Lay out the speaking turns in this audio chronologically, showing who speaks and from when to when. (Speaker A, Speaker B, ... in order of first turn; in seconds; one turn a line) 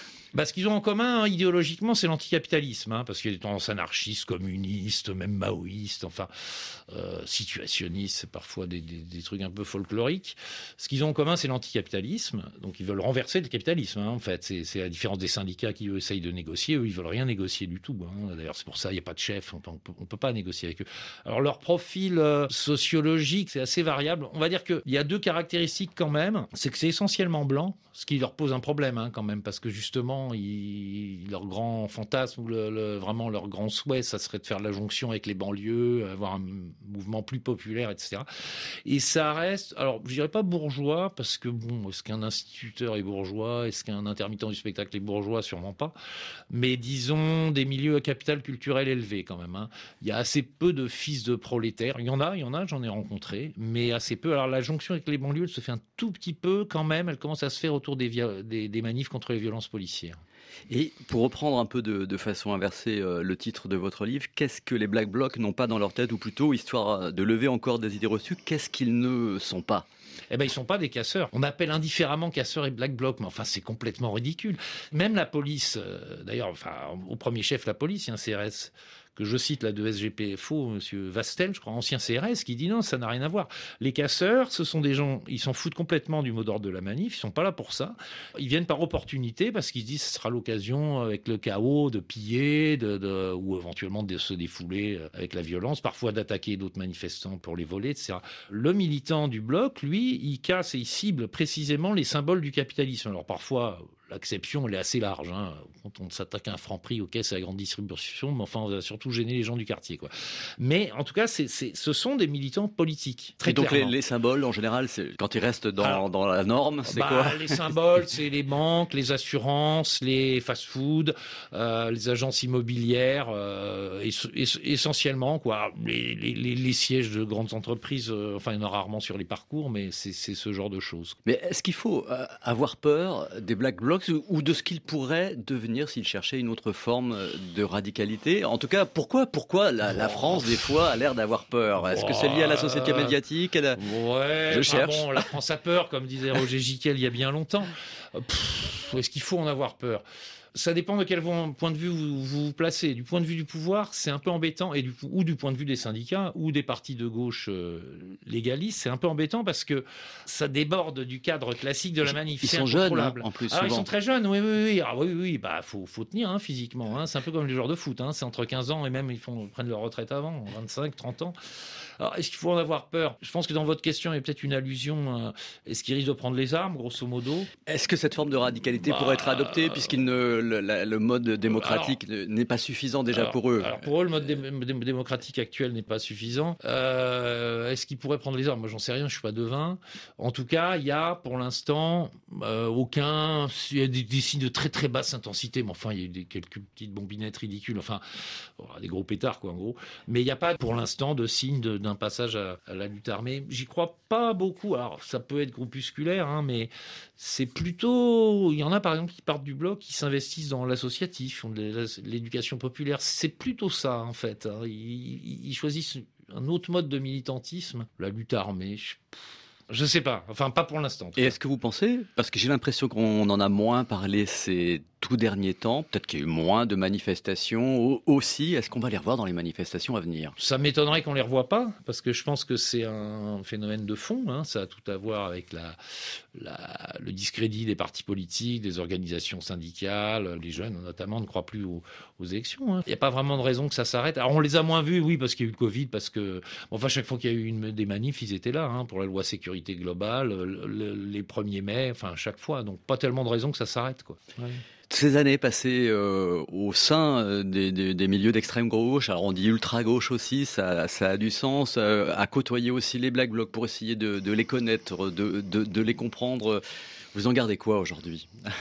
Speaker A: 0.3-38.2
Speaker A: 38.8-45.9
Speaker A: 46.5-60.2
Speaker B: 60.7-69.9
Speaker A: 70.3-113.9
Speaker B: 113.4-117.6
Speaker A: 116.9-131.2
Speaker B: 131.3-143.8
Speaker A: 141.8-143.2
Speaker A: 143.8-171.3
Speaker B: 144.5-145.3
Speaker B: 162.1-163.9
Speaker A: 172.0-177.5
Speaker B: 177.7-183.8
Speaker A: 178.8-179.9
Speaker A: 181.5-182.0
Speaker A: 183.1-219.0
Speaker A: 219.7-221.3
Speaker B: 221.2-230.3
Speaker A: 230.4-235.8
Speaker A: 236.3-254.6
Speaker B: 254.9-266.6
Speaker B: 267.1-268.3